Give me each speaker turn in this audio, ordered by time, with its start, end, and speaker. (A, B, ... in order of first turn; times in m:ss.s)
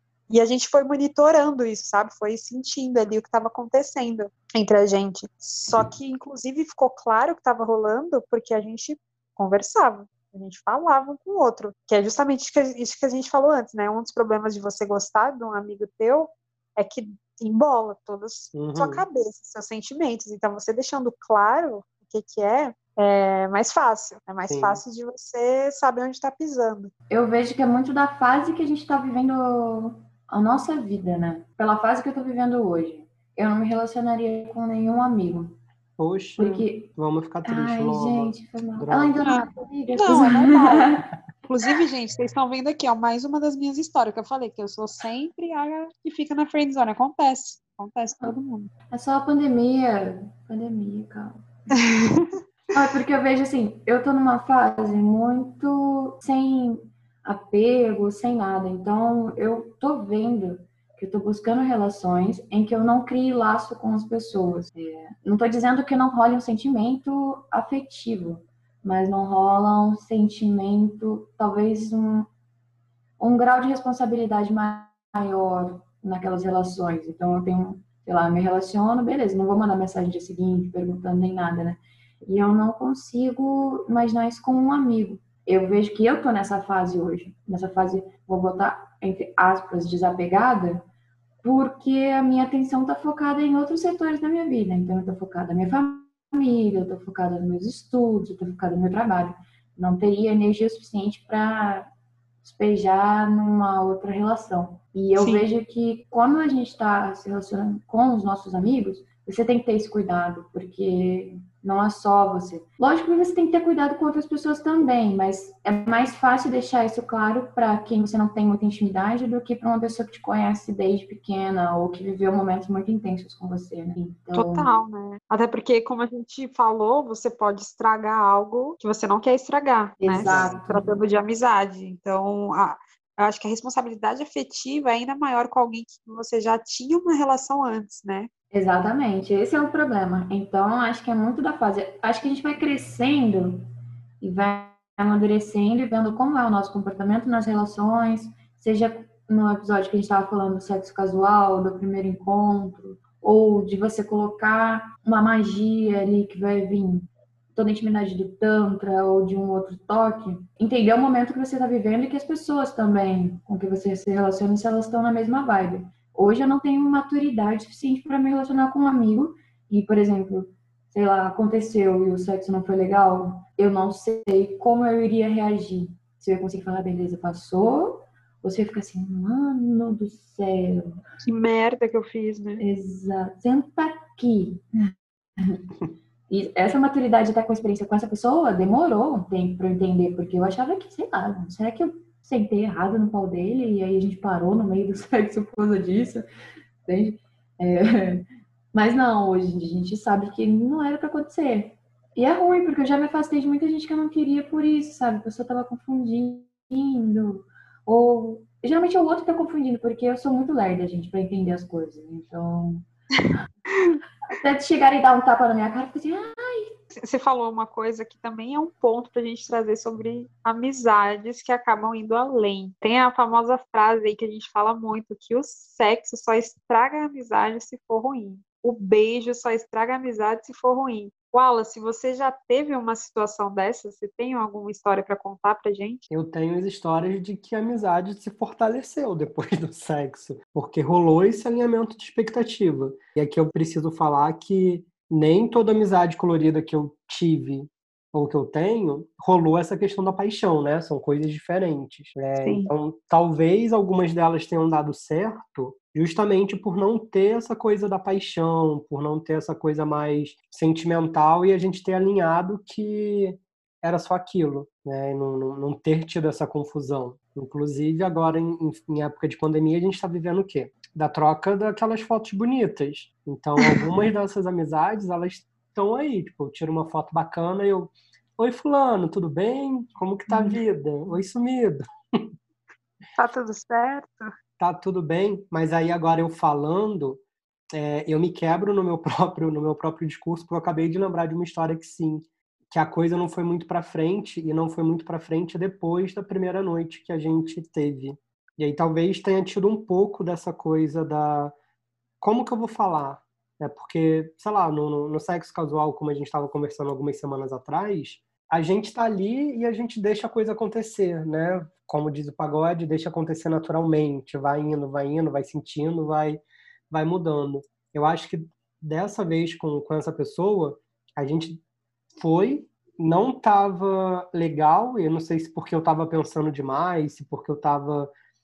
0:00.3-0:26.9 A
0:18.5-0:19.0 B
0:24.5-0:24.8 B
0:27.1-0:35.5 C
0:36.0-0:39.2 B
0:36.4-0:36.9 C
0:37.4-0:41.1 C
0:39.2-0:40.9 A
0:41.4-0:48.7 A
0:48.9-0:51.8 C
0:51.7-0:52.3 A
0:52.7-1:12.3 C
1:13.2-1:30.8 C
1:31.4-1:41.9 C
1:42.4-2:04.7 C
1:45.2-1:45.4 A
2:04.3-2:18.3 A
2:10.0-2:10.9 C
2:10.2-2:10.6 B
2:18.5-2:23.6 C
2:24.2-3:01.0 C
3:01.2-3:02.6 A
3:02.6-3:05.6 C
3:06.3-3:16.2 C
3:16.8-3:32.8 C
3:33.7-3:34.0 A
3:34.3-3:36.7 C
3:36.9-3:56.0 A
3:56.1-4:42.3 B
4:12.4-4:12.7 A
4:43.2-4:44.3 A
4:44.6-5:01.5 B
5:02.2-5:21.6 B
5:22.2-5:28.1 B